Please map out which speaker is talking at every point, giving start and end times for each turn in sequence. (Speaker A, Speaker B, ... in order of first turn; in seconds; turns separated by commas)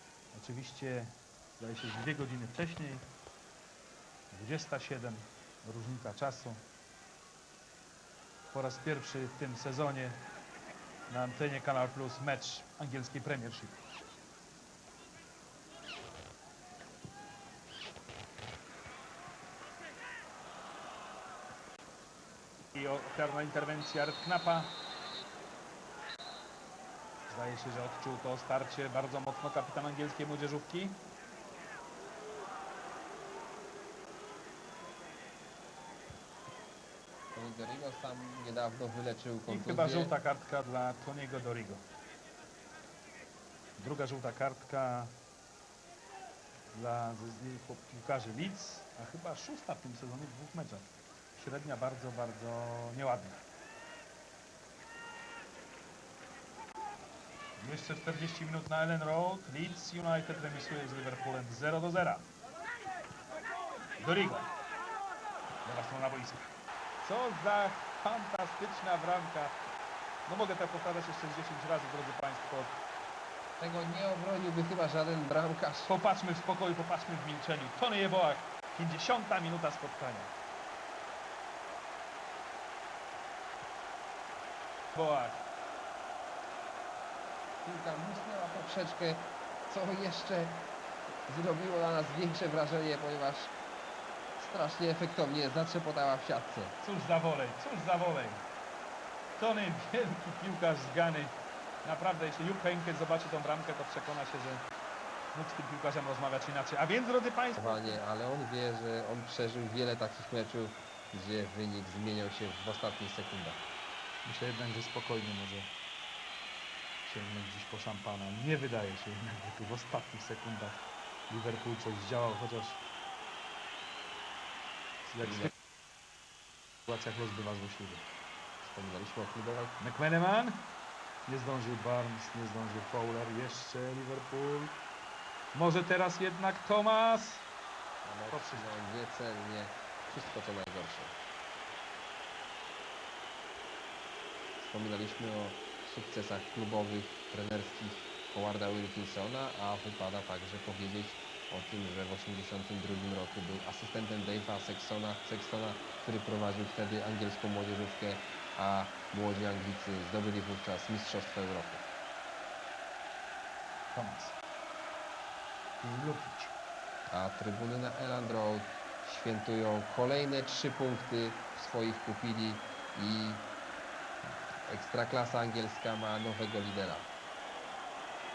Speaker A: 0.3-3.0, Speaker A: 4.3-6.6, Speaker A: 8.5-10.2, Speaker A: 11.1-13.7, Speaker A: 22.7-24.7, Speaker A: 27.3-31.0, Speaker B: 37.3-40.1, Speaker A: 39.5-41.8, Speaker A: 43.8-45.1, Speaker A: 46.7-53.4, Speaker A: 57.6-62.3, Speaker A: 64.0-64.5, Speaker A: 65.6-66.5, Speaker A: 67.0-69.5, Speaker A: 70.3-72.8, Speaker B: 73.6-75.9, Speaker A: 75.9-80.3, Speaker A: 84.9-85.4, Speaker B: 87.6-90.5, Speaker B: 91.3-93.5, Speaker B: 94.4-96.7, Speaker A: 96.8-98.4, Speaker A: 99.4-104.6, Speaker A: 105.3-108.0, Speaker B: 107.5-113.6, Speaker A: 114.2-115.7, Speaker A: 117.0-122.8, Speaker A: 125.0-125.5, Speaker B: 125.2-125.5, Speaker A: 126.9-128.0, Speaker B: 128.6-129.8, Speaker A: 129.8-130.6, Speaker A: 131.3-134.7, Speaker A: 135.5-137.4, Speaker B: 138.0-141.1, Speaker A: 138.3-138.8, Speaker B: 144.6-161.8, Speaker A: 163.9-164.3, Speaker A: 165.8-166.5, Speaker B: 167.1-173.4, Speaker B: 174.7-177.1